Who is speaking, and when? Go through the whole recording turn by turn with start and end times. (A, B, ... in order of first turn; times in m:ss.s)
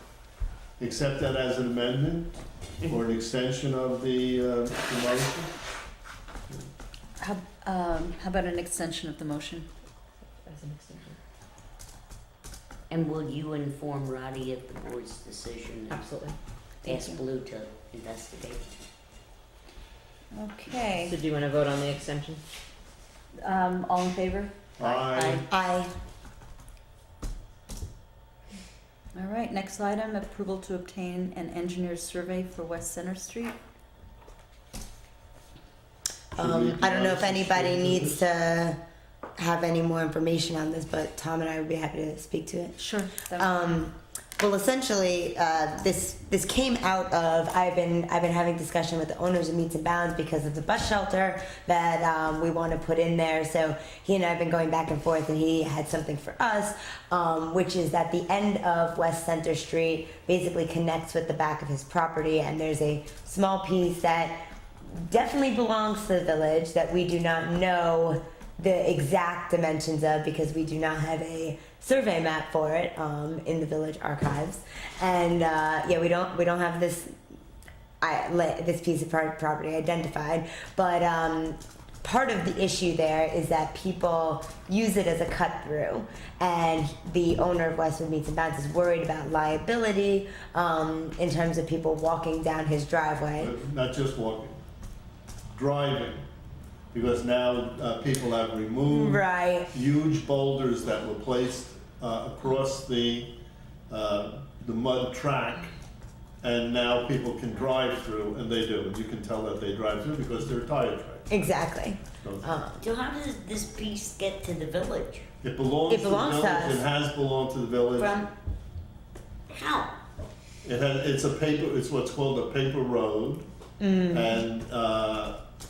0:00.8-0:02.3 A
0:02.8-0:05.5 A
0:07.2-0:09.7 B
0:10.5-0:11.1 C
0:12.9-0:16.0 D
0:15.9-0:16.4 C
0:16.8-0:17.2 B
0:16.8-0:18.6 D
0:20.3-0:21.1 B
0:21.0-0:22.4 C
0:23.4-0:24.5 B
0:24.8-0:25.4 A
0:24.8-0:25.4 D
0:25.5-0:25.9 E
0:29.1-0:33.6 B
0:36.3-0:38.8 E
0:36.4-0:38.2 A
0:39.4-0:42.8 E
0:42.8-0:43.7 B
0:43.3-1:17.1 E
1:18.0-1:33.5 E
1:33.4-1:34.6 A
1:35.5-1:36.2 A
1:36.9-1:43.3 A
1:38.8-1:39.7 E
1:43.9-1:45.7 A
1:46.4-1:51.4 A
1:51.3-1:52.8 E
1:52.2-1:52.6 A
1:52.8-1:55.3 D
1:55.4-1:58.2 A
1:55.9-1:56.8 E
1:58.0-1:58.3 D
1:59.5-2:00.0 D
2:00.6-2:03.4 A
2:03.8-2:04.4 E
2:04.1-2:05.4 A